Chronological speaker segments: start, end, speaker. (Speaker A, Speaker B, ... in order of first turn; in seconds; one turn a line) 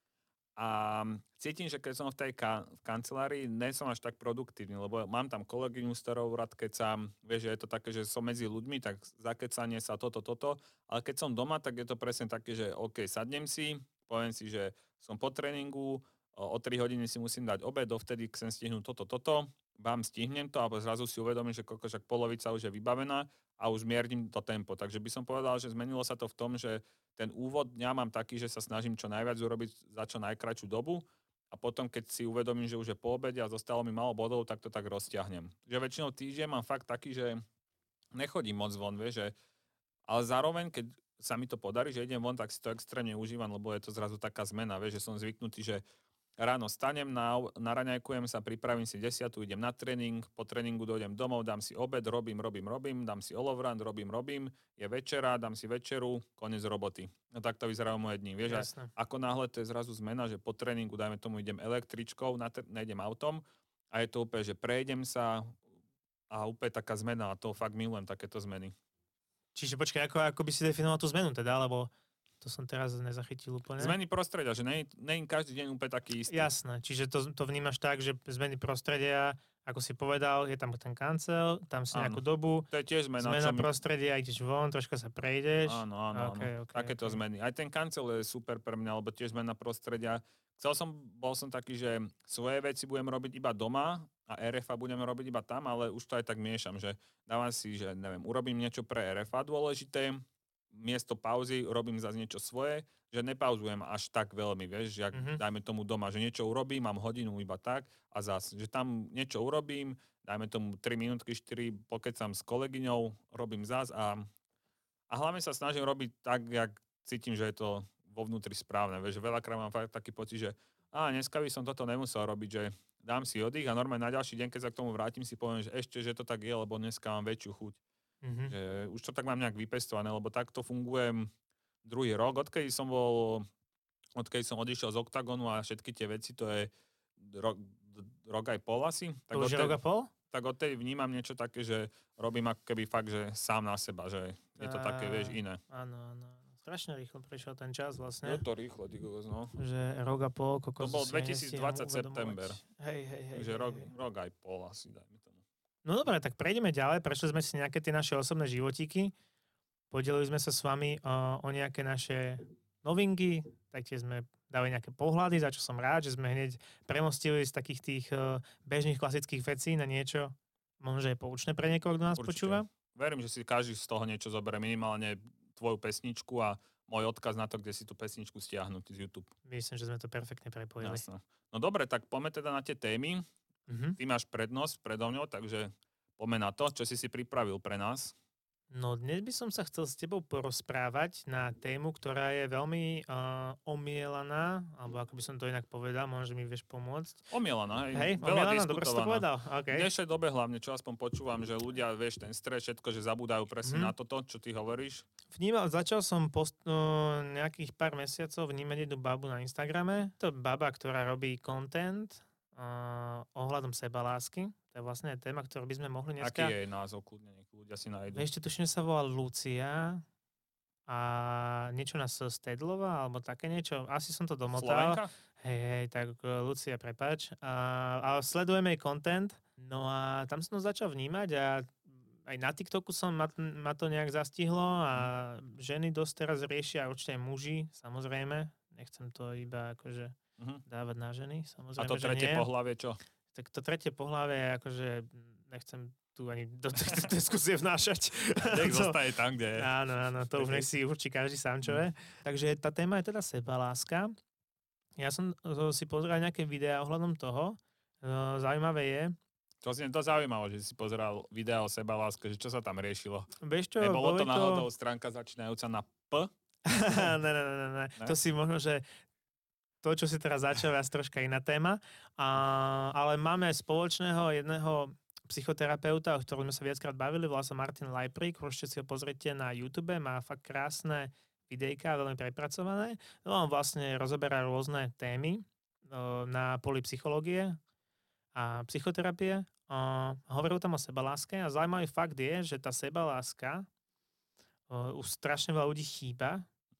Speaker A: 0.6-37.4
Speaker A: 38.1-39.3
Speaker A: 40.1-45.8
Speaker A: 46.4-65.6
Speaker B: 58.4-58.9
Speaker A: 66.3-68.7
Speaker B: 69.5-74.0
Speaker A: 73.8-76.5
Speaker B: 76.3-87.2
Speaker A: 81.9-83.7
Speaker A: 85.6-114.3
Speaker B: 105.1-105.4
Speaker A: 115.1-127.8
Speaker B: 128.2-128.5
Speaker A: 128.5-131.3
Speaker A: 131.8-133.5
Speaker A: 134.2-139.8
Speaker B: 139.3-140.1
Speaker A: 140.3-145.6
Speaker B: 144.6-148.4
Speaker A: 148.2-149.5
Speaker B: 149.6-153.9
Speaker A: 150.8-152.6
Speaker A: 153.3-155.4
Speaker B: 155.8-159.1
Speaker B: 159.9-172.7
Speaker A: 172.2-179.3
Speaker B: 179.4-181.0
Speaker A: 180.8-183.2
Speaker B: 183.7-184.0
Speaker A: 184.0-188.1
Speaker B: 188.7-197.2
Speaker A: 197.3-205.1
Speaker B: 197.9-199.9
Speaker B: 203.6-203.9
Speaker B: 205.3-216.5
Speaker A: 216.2-218.2
Speaker B: 218.1-220.0
Speaker B: 220.9-242.5
Speaker A: 224.5-225.1
Speaker A: 241.8-243.0
Speaker B: 243.3-249.0
Speaker A: 248.4-249.7
Speaker B: 249.5-254.1
Speaker A: 250.3-250.7
Speaker B: 255.0-259.1
Speaker A: 259.6-266.3
Speaker B: 263.4-264.7
Speaker B: 266.6-268.8
Speaker B: 269.8-287.6
Speaker B: 288.3-293.7
Speaker B: 294.7-296.5